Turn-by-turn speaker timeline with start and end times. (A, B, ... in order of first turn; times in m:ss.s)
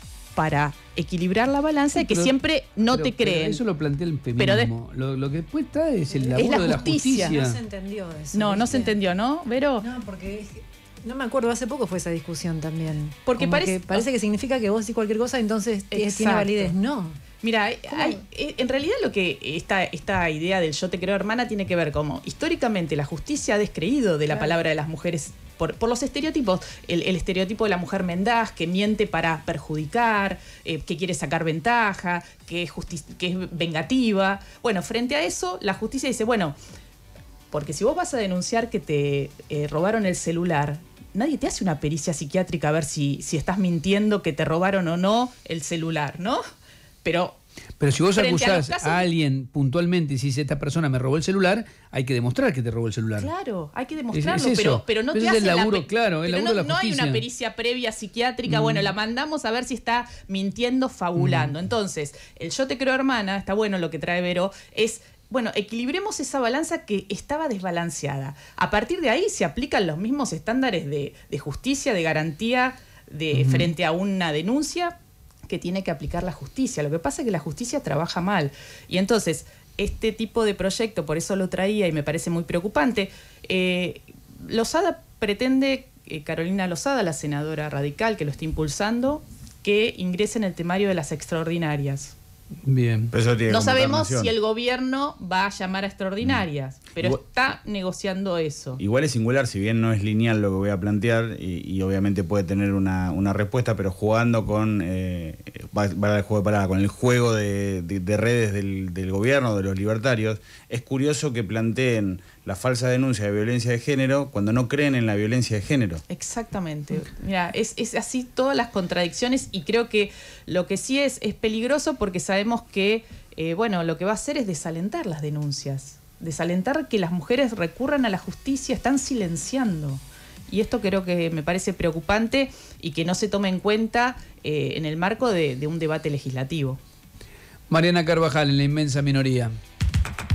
0:00.4-0:03.6 A
0:01.9-0:02.3 B
0:02.9-0:07.6 B
0:04.4-0:04.7 A
0:06.1-0:09.0 C
0:06.4-0:07.4 A
0:08.3-0:09.9 A
0:09.8-0:17.2 C
0:13.2-0:14.1 A
0:15.9-0:16.8 A
0:17.4-0:36.6 A
0:17.9-0:18.2 C
0:37.5-0:46.4 A
0:47.0-0:47.4 A
0:47.8-0:53.3 B
0:48.1-0:49.1 A
0:53.2-1:15.0 A
0:54.1-0:57.2 B
0:58.5-0:58.9 B
1:01.2-1:01.6 B
1:13.3-1:13.7 B
1:15.5-1:32.2 A
1:32.6-1:33.1 B
1:33.1-1:34.3 D
1:33.5-1:38.8 A
1:38.8-1:56.0 D
1:56.1-2:16.8 A
2:17.7-2:19.5 B